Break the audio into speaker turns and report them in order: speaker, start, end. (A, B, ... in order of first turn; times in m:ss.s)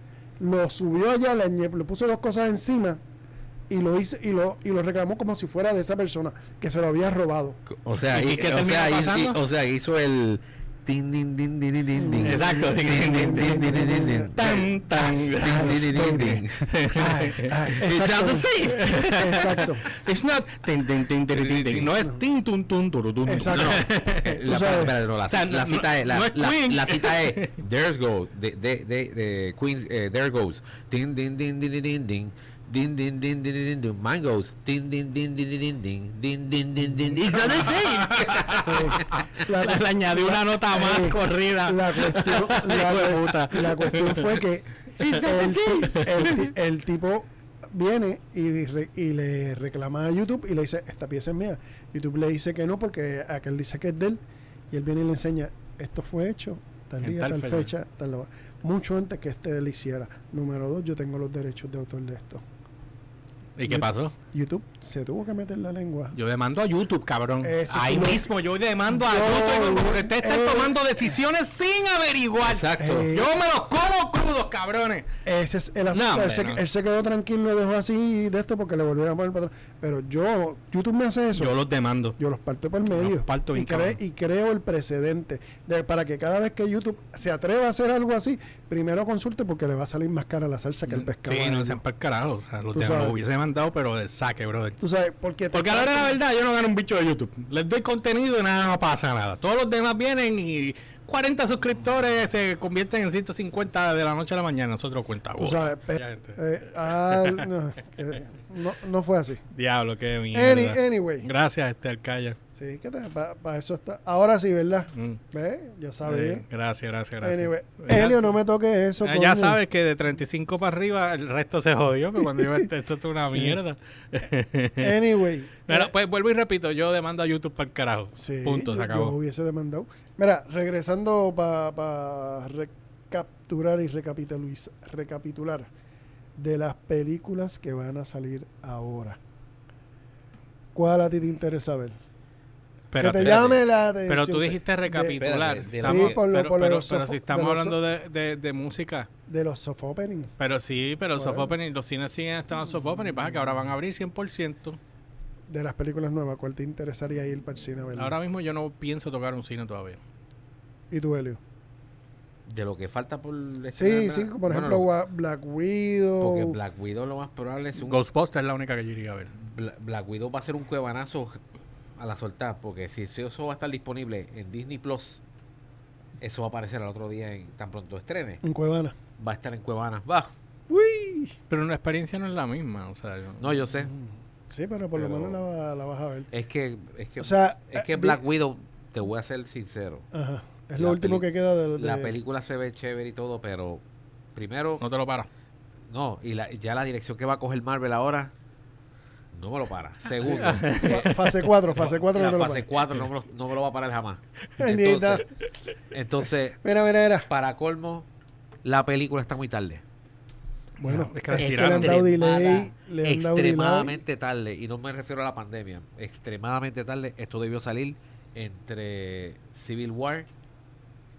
0:00.4-0:03.0 A
0:03.7-0:07.6 A
0:07.7-0:16.7 B
0:08.1-0:09.4 C
0:11.9-0:12.4 A
0:12.2-0:17.9 C
0:13.2-0:16.2 A
0:16.9-0:19.9 A
0:17.7-0:19.6 B
0:18.7-0:24.4 C
0:21.3-0:21.9 B
0:23.2-0:23.9 A
0:23.5-0:39.2 B
0:24.4-0:24.9 A
0:25.3-0:27.5 C
0:37.4-0:44.4 C
0:38.6-1:02.4 A
0:45.0-0:45.5 B
0:45.0-0:46.4 C
0:57.0-0:57.7 C
1:03.6-1:04.1 C
1:03.7-1:06.1 A
1:06.1-1:15.1 C
1:07.4-1:08.3 A
1:08.9-1:10.8 A
1:12.4-1:13.1 B
1:12.8-1:13.3 A
1:15.2-1:21.6 A
1:15.9-1:16.6 C
1:21.3-1:22.2 C
1:22.2-1:31.8 A
1:22.9-1:24.0 C
1:30.9-1:34.8 C
1:32.7-1:33.2 A
1:34.8-1:36.2 A
1:35.5-1:46.4 C
1:45.4-1:49.4 A
1:47.1-1:47.4 C
1:49.5-1:52.4 C
1:50.3-1:51.2 A
1:52.6-1:56.4 A
1:54.9-1:55.2 C
1:56.0-1:58.4 C
1:57.2-1:59.6 A
1:59.0-2:05.0 C
2:02.4-2:02.6 A
2:04.8-2:05.9 A
2:05.7-2:09.1 C
2:08.2-2:15.7 A
2:16.4-2:19.2 A
2:20.7-2:22.0 A
2:22.9-2:29.1 C
2:23.0-2:25.2 A
2:23.2-2:23.6 B
2:25.1-2:26.2 B
2:25.8-2:27.8 A
2:29.3-2:30.3 A
2:30.4-2:34.8 C
2:31.2-2:31.5 A
2:35.5-2:38.2 A
2:37.9-2:40.0 C
2:40.9-2:41.4 A
2:42.5-2:44.9 B
2:43.8-2:46.6 A
2:46.2-2:48.0 B
2:47.8-2:49.3 C
2:49.3-2:51.4 B
2:52.0-2:55.2 B
2:56.2-2:58.4 B
2:58.4-2:59.0 A
2:59.2-3:00.3 B
3:00.7-3:01.3 A
3:01.5-3:03.6 C
3:03.4-3:03.9 B
3:03.9-3:06.3 A
3:05.0-3:05.4 B
3:06.3-3:10.1 B
3:07.2-3:08.2 A
3:10.1-3:12.1 A
3:10.8-3:13.8 B
3:14.3-3:14.8 B
3:14.8-3:15.3 C
3:15.9-3:18.3 B
3:19.3-3:20.8 B
3:20.2-3:22.7 A
3:20.2-3:21.5 C
3:22.1-3:25.2 B
3:24.6-3:25.2 A
3:25.9-3:26.6 B
3:26.6-3:27.3 A
3:27.3-3:28.1 B
3:28.6-3:29.8 B
3:30.8-3:32.1 C
3:30.8-3:34.0 A
3:31.3-3:40.3 B